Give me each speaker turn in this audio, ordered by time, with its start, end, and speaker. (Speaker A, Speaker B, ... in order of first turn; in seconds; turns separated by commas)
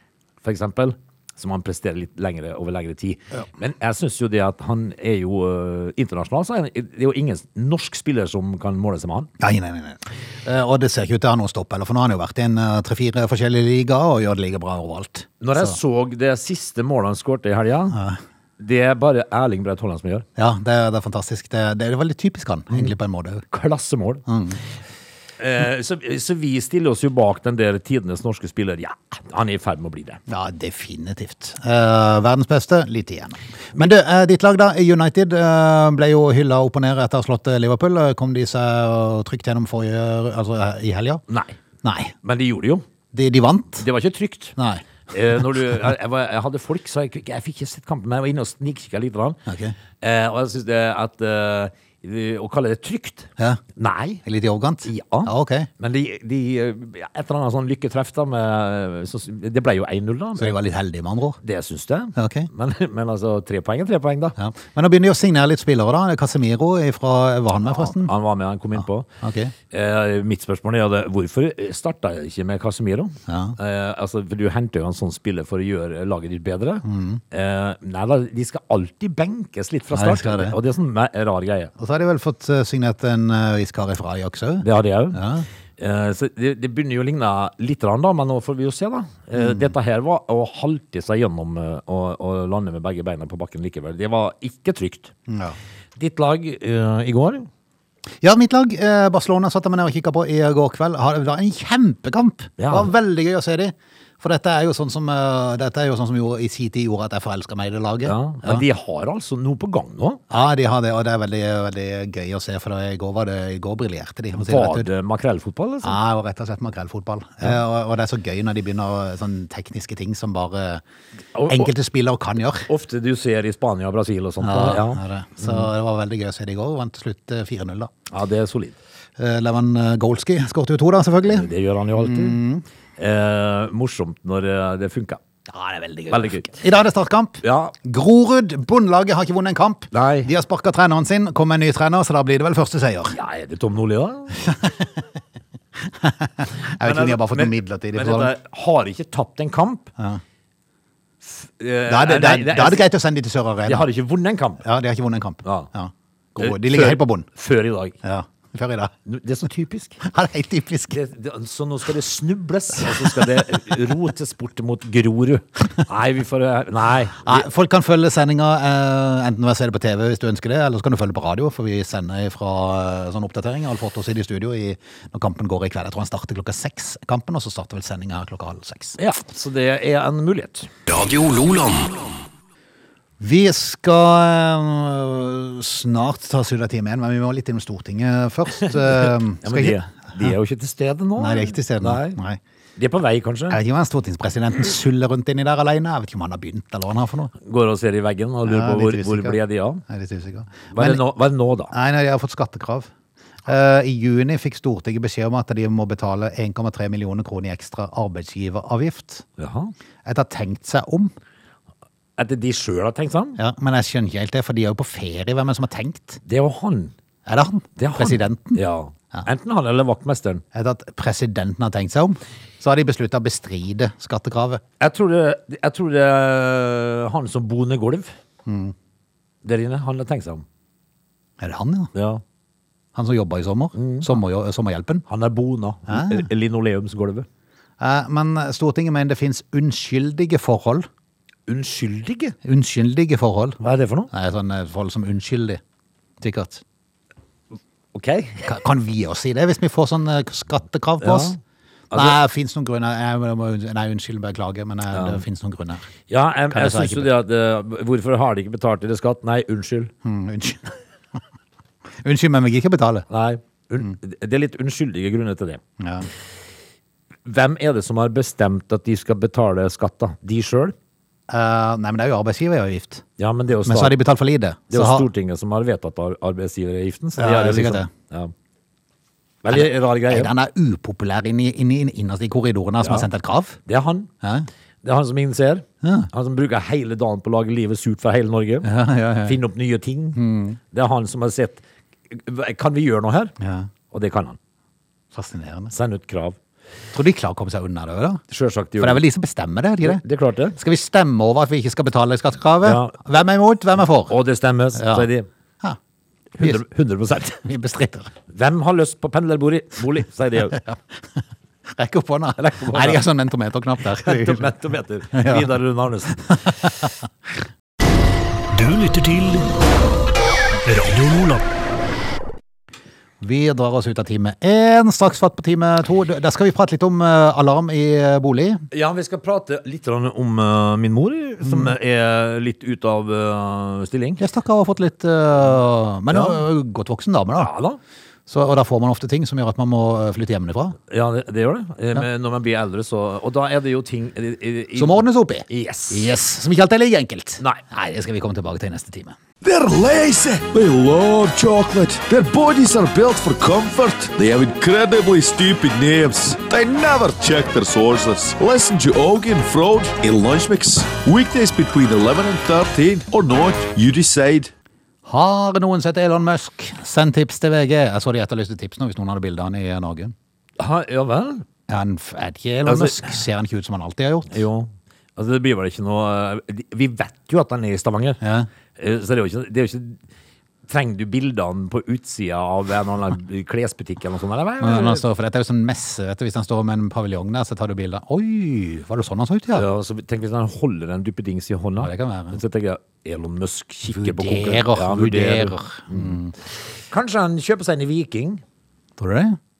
Speaker A: 0.4-9.3, Speaker B: 9.4-15.8, Speaker A: 15.4-18.0, Speaker B: 17.9-18.2, Speaker A: 18.6-20.2, Speaker B: 20.4-23.4, Speaker A: 23.5-24.2, Speaker B: 24.2-24.6, Speaker A: 25.4-30.2, Speaker B: 30.3-41.2, Speaker A: 41.3-41.6, Speaker B: 41.8-42.1, Speaker A: 42.2-42.9, Speaker B: 43.1-43.9, Speaker A: 43.8-44.5, Speaker B: 44.6-44.8, Speaker A: 45.1-49.4, Speaker B: 49.5-49.8, Speaker A: 50.0-54.2, Speaker B: 54.2-55.7, Speaker A: 54.9-60.5, Speaker B: 60.4-61.4, Speaker A: 61.4-64.4, Speaker B: 62.1-62.5, Speaker B: 64.4-68.1, Speaker A: 67.6-69.1, Speaker B: 69.2-69.5, Speaker A: 69.7-81.7, Speaker B: 73.3-73.5, Speaker B: 76.8-77.2, Speaker B: 79.9-80.6, Speaker B: 81.8-85.5, Speaker A: 84.6-85.2, Speaker A: 85.8-95.1, Speaker B: 89.4-89.7, Speaker B: 95.3-95.6, Speaker A: 96.0-97.5, Speaker B: 98.2-108.6, Speaker A: 102.6-102.9, Speaker A: 108.0-110.2, Speaker B: 110.3-114.9, Speaker A: 114.3-116.0, Speaker B: 115.8-120.8, Speaker A: 121.3-121.7, Speaker B: 121.5-122.7, Speaker A: 122.7-125.7, Speaker B: 124.4-127.9, Speaker A: 128.1-128.8, Speaker B: 129.2-132.6, Speaker A: 131.2-132.4, Speaker A: 133.0-135.2, Speaker B: 135.5-143.1, Speaker A: 136.1-136.6, Speaker A: 137.4-137.8, Speaker A: 139.9-140.3, Speaker A: 143.1-144.4, Speaker B: 144.4-144.9, Speaker B: 145.8-148.3, Speaker A: 146.8-149.9, Speaker A: 151.2-152.9, Speaker B: 151.9-153.9, Speaker A: 153.7-154.6, Speaker B: 154.6-157.3, Speaker A: 155.4-155.7, Speaker A: 156.4-158.0, Speaker B: 158.0-158.9, Speaker A: 159.1-160.0, Speaker B: 160.0-161.0, Speaker A: 160.9-167.5, Speaker B: 167.2-179.0, Speaker A: 179.0-180.7, Speaker C: 180.9-182.1, Speaker B: 183.2-190.3, Speaker A: 188.6-192.2, Speaker B: 191.2-192.4, Speaker A: 192.8-193.6, Speaker B: 193.5-197.3, Speaker A: 197.4-199.8, Speaker B: 198.4-201.0, Speaker A: 200.7-201.7, Speaker B: 201.7-202.9, Speaker B: 203.4-209.2, Speaker A: 209.4-209.7, Speaker B: 210.0-211.1, Speaker A: 212.2-213.4, Speaker B: 213.4-216.2, Speaker A: 216.2-216.9, Speaker B: 217.2-218.6, Speaker A: 217.8-220.4, Speaker B: 220.5-224.6, Speaker A: 224.8-228.1, Speaker B: 228.4-228.7, Speaker A: 229.4-230.4, Speaker B: 231.4-231.9, Speaker A: 231.9-232.2, Speaker B: 232.9-235.0, Speaker A: 233.8-234.1, Speaker A: 235.1-237.3, Speaker B: 235.9-236.3, Speaker B: 237.8-240.9, Speaker A: 241.5-242.4, Speaker B: 242.4-243.6, Speaker A: 243.6-244.1, Speaker B: 244.1-245.6, Speaker B: 246.2-246.6, Speaker A: 247.9-248.4, Speaker B: 248.4-251.4, Speaker A: 251.0-251.4, Speaker A: 251.9-252.2, Speaker B: 251.9-255.9, Speaker A: 254.9-255.2, Speaker A: 256.1-259.9, Speaker B: 256.5-257.1, Speaker B: 260.0-261.2, Speaker B: 262.0-263.1, Speaker A: 263.1-265.6, Speaker B: 265.8-266.1, Speaker A: 267.2-270.8, Speaker B: 271.3-273.0, Speaker A: 273.2-273.9, Speaker B: 273.6-275.1, Speaker A: 274.7-278.3, Speaker B: 277.2-277.9, Speaker A: 279.4-280.3, Speaker B: 279.5-283.6, Speaker A: 283.6-284.1, Speaker B: 284.2-284.5, Speaker A: 284.8-288.7, Speaker B: 285.8-286.1, Speaker B: 288.6-289.4, Speaker A: 289.2-293.3, Speaker B: 290.1-290.6, Speaker B: 293.4-293.7, Speaker A: 293.9-294.4, Speaker B: 295.1-295.7, Speaker A: 295.7-296.4, Speaker B: 296.9-298.2, Speaker A: 298.3-299.0, Speaker B: 298.8-300.0, Speaker A: 299.8-300.6, Speaker B: 300.6-304.1, Speaker A: 302.6-302.9, Speaker A: 304.1-305.3, Speaker B: 304.8-305.1, Speaker A: 306.4-307.4, Speaker B: 307.4-308.1, Speaker A: 308.3-310.6, Speaker B: 311.7-314.5, Speaker A: 312.4-313.0, Speaker A: 313.9-316.3, Speaker B: 315.1-315.5, Speaker B: 316.3-316.9, Speaker C: 318.5-319.5, Speaker C: 320.6-321.4, Speaker B: 323.2-328.6, Speaker A: 328.7-334.2, Speaker B: 331.4-331.7, Speaker B: 334.2-337.5, Speaker A: 336.1-336.4, Speaker A: 337.4-337.8, Speaker B: 338.3-340.8, Speaker A: 340.9-346.1, Speaker B: 344.8-349.1, Speaker D: 349.4-364.5, Speaker B: 365.1-370.1, Speaker A: 370.6-371.4, Speaker B: 371.7-374.4, Speaker A: 372.6-373.1, Speaker A: 374.3-378.2, Speaker B: 378.2-378.5, Speaker A: 378.8-380.0, Speaker A: 380.6-385.0, Speaker B: 384.6-389.6, Speaker A: 389.5-396.2, Speaker B: 391.8-392.4, Speaker B: 393.9-396.3, Speaker A: 396.7-398.4, Speaker B: 399.0-399.4